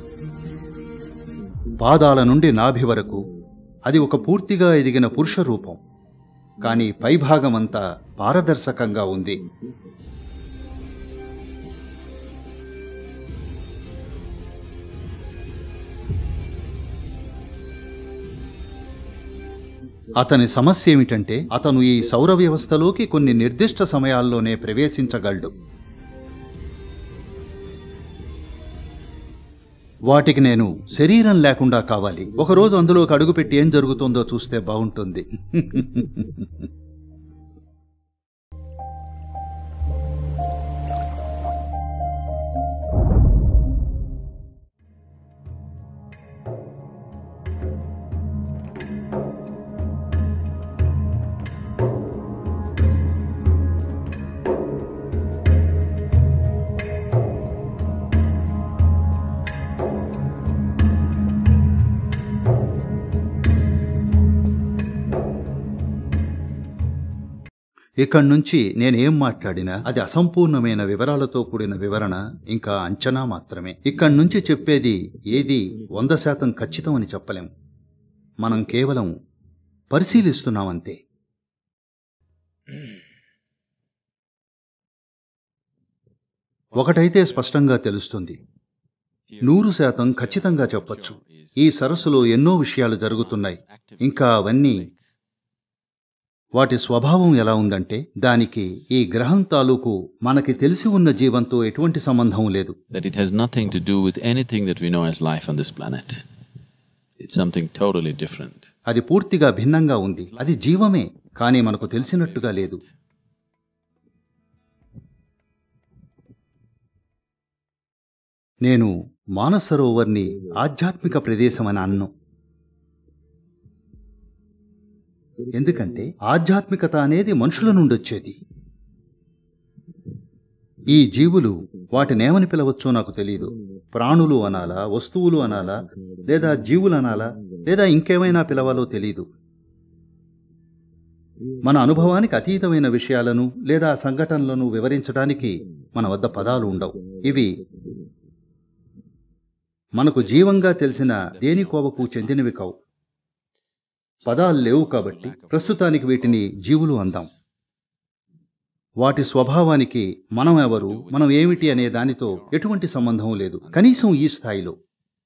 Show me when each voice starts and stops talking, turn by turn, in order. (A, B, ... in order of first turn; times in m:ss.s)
0:01.8-0:03.3 A
0:03.9-0:05.8 A
0:06.6-0:09.4 A
0:20.2-0:25.5 A
0:30.1-0:36.4 A
1:08.0-1:17.5 A
1:18.4-1:19.1 A
1:19.9-1:21.0 A
1:26.7-1:27.6 B
1:26.8-1:28.4 A
1:29.3-1:32.2 B
1:29.4-1:34.9 A
1:33.1-1:35.0 B
1:36.6-1:42.8 A
1:40.4-1:42.1 B
1:42.9-1:46.3 B
1:47.2-1:48.7 B
1:48.9-1:52.8 A
1:50.3-1:50.7 B
1:51.7-1:52.8 B
1:58.6-2:02.1 A
2:05.5-2:08.4 A
2:10.9-2:19.2 A
2:21.6-2:27.6 A
2:30.0-2:32.7 A
2:30.2-2:32.5 B
2:34.2-2:37.3 B
2:34.2-2:37.3 A
2:39.0-2:44.8 A
2:40.6-2:42.7 B
2:43.6-2:44.4 B